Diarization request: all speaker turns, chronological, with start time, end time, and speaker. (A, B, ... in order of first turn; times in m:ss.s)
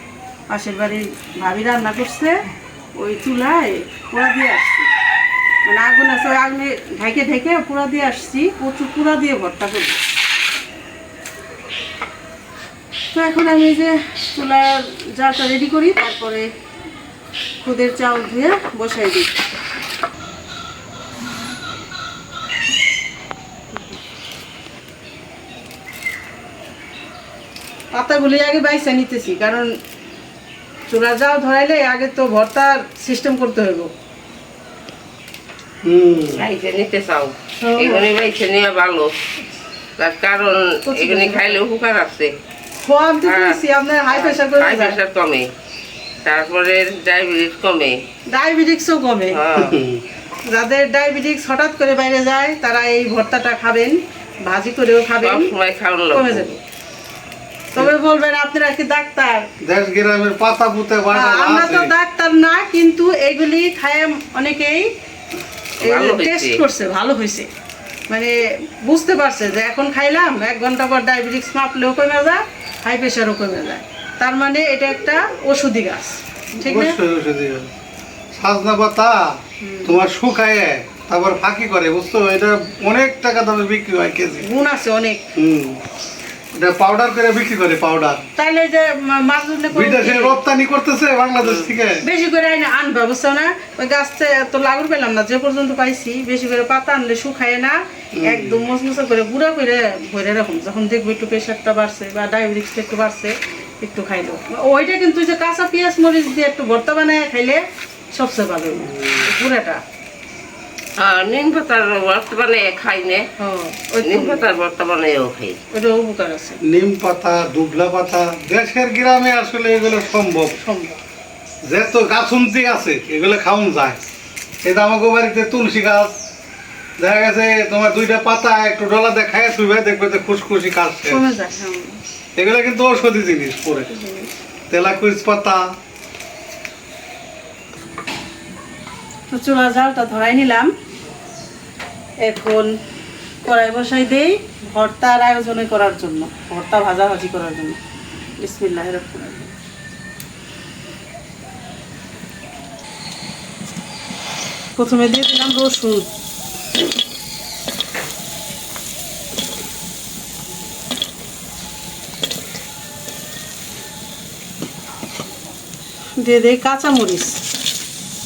0:00.5-0:02.4 A
0:03.0-0:04.9 A
0:05.6-0:10.0 A
0:13.1-0:16.5 A
0:17.6-0:19.3 A
0:27.9-0:29.7 A
0:30.9-0:33.9 A
0:35.8-0:36.4 B
0:36.3-0:39.1 C
0:37.6-0:38.1 A
0:40.0-0:42.3 C
0:40.8-0:41.6 A
0:42.8-0:45.0 A
0:43.3-0:43.6 C
0:44.1-0:45.5 C
0:46.2-0:48.0 C
0:48.3-0:49.4 A
0:49.3-0:49.8 C
0:49.6-0:50.0 B
0:50.5-0:55.5 A
0:55.2-0:56.5 C
0:56.1-0:56.6 A
0:57.7-0:59.5 A
0:59.6-1:01.9 B
1:01.1-1:04.9 A
1:05.8-1:07.5 A
1:05.8-1:06.6 C
1:08.1-1:17.0 A
1:16.6-1:17.7 B
1:18.3-1:24.5 B
1:19.6-1:20.0 A
1:24.4-1:25.3 A
1:25.4-1:25.8 B
1:26.5-1:28.3 B
1:28.4-1:30.4 A
1:29.7-1:32.0 B
1:31.4-1:31.7 C
1:32.0-1:49.8 A
1:38.2-1:38.6 B
1:49.0-1:49.2 B
1:51.0-1:53.3 C
1:53.4-1:54.5 A
1:54.0-1:55.6 C
1:55.7-1:56.6 A
1:56.6-2:00.6 B
2:00.6-2:01.0 A
2:01.6-2:04.0 B
2:04.6-2:06.2 B
2:07.0-2:11.2 B
2:11.1-2:12.0 A
2:12.4-2:13.9 B
2:13.9-2:14.3 A
2:14.7-2:15.7 B
2:19.3-2:20.7 A
2:22.2-2:22.7 A
2:23.4-2:27.8 A
2:28.4-2:29.5 A
2:34.8-2:36.1 A
2:46.2-2:47.4 A